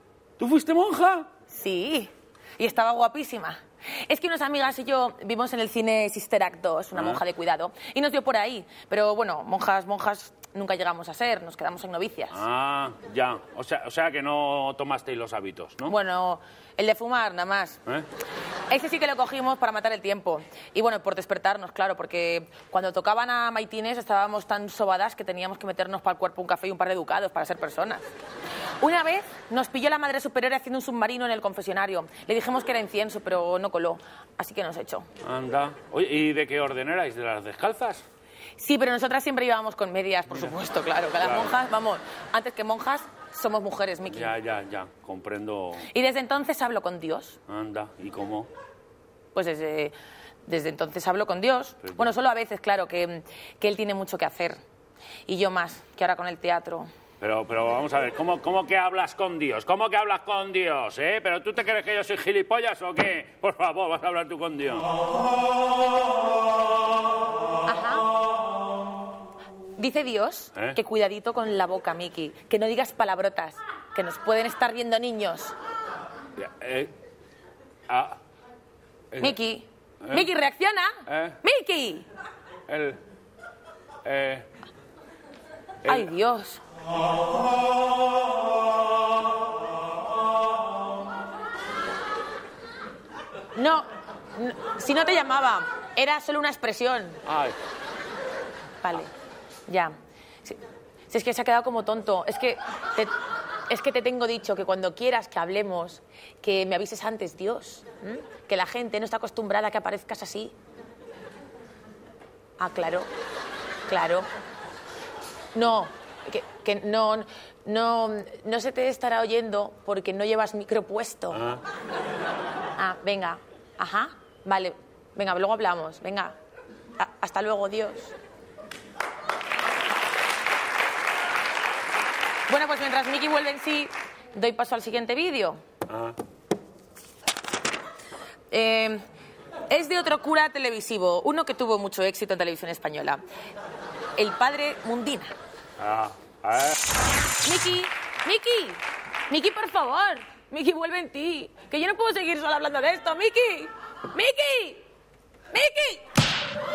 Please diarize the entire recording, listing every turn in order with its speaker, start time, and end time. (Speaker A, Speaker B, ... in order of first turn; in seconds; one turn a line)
Speaker A: 0.4-1.3
Speaker B: 1.5-12.4
Speaker A: 7.0-7.2
Speaker A: 12.3-15.9
Speaker B: 15.9-17.8
Speaker B: 18.7-28.1
Speaker B: 28.8-35.1
Speaker A: 35.2-38.0
Speaker B: 38.6-44.3
Speaker A: 40.3-40.6
Speaker A: 41.2-41.6
Speaker A: 44.1-45.9
Speaker B: 45.8-47.4
Speaker A: 47.5-48.5
Speaker B: 49.3-50.0
Speaker B: 50.5-54.6
Speaker A: 51.9-52.1
Speaker B: 55.3-56.9
Speaker A: 57.2-64.9
Speaker B: 67.7-68.1
Speaker B: 69.8-75.5
Speaker A: 76.4-76.9
Speaker A: 77.9-78.2
Speaker B: 79.2-82.1
Speaker A: 80.0-80.3
Speaker A: 81.1-81.4
Speaker A: 82.7-83.0
Speaker A: 84.0-84.5
Speaker B: 85.8-86.6
Speaker B: 93.5-97.2
Speaker A: 97.3-97.6
Speaker B: 98.8-99.1
Speaker B: 99.7-103.2
Speaker B: 103.7-110.5
Speaker B: 112.6-113.1
Speaker B: 113.9-114.3
Speaker B: 115.5-121.4
Speaker A: 121.3-121.6
Speaker B: 122.8-126.4
Speaker B: 127.0-128.2
Speaker B: 132.5-135.6
Speaker A: 135.9-136.2
Speaker B: 138.5-139.0
Speaker B: 139.7-143.2
Speaker B: 144.2-145.3
Speaker A: 145.8-146.8
Speaker B: 147.4-154.8
Speaker B: 155.5-156.1